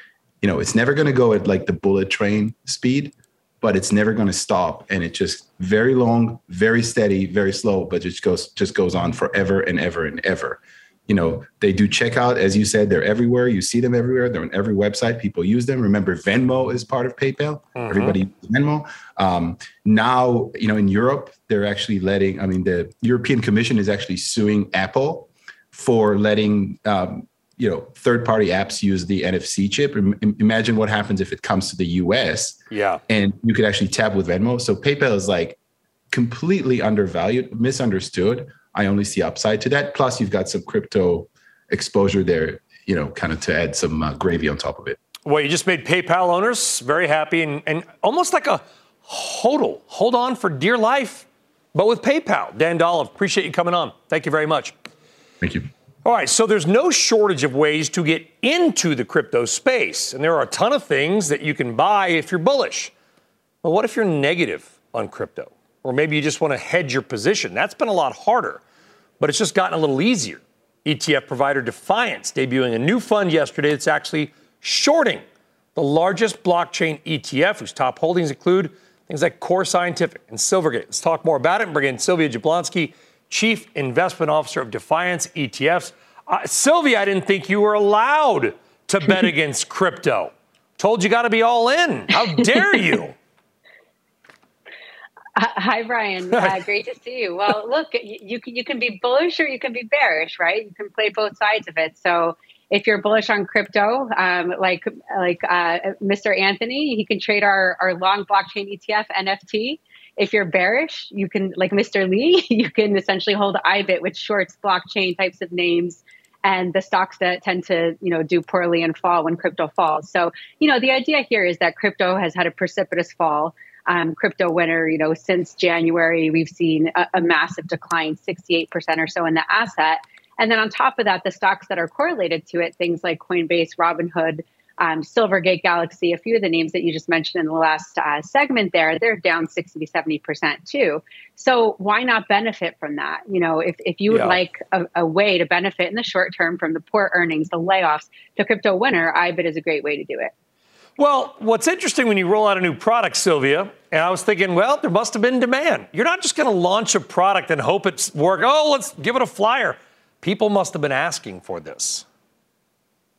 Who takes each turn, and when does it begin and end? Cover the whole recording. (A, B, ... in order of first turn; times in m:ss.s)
0:00.4-0:35.6 A
0:17.8-0:18.2 B
0:32.7-0:33.0 B
0:36.1-0:45.0 A
0:45.2-0:54.7 B
0:55.4-0:55.7 A
0:56.0-1:02.9 B
1:03.6-1:08.6 B
1:09.2-1:15.2 B
1:15.7-1:33.1 B
1:35.4-2:30.3 C
1:36.3-1:36.6 B
2:24.1-2:24.4 B
2:31.0-2:42.0 B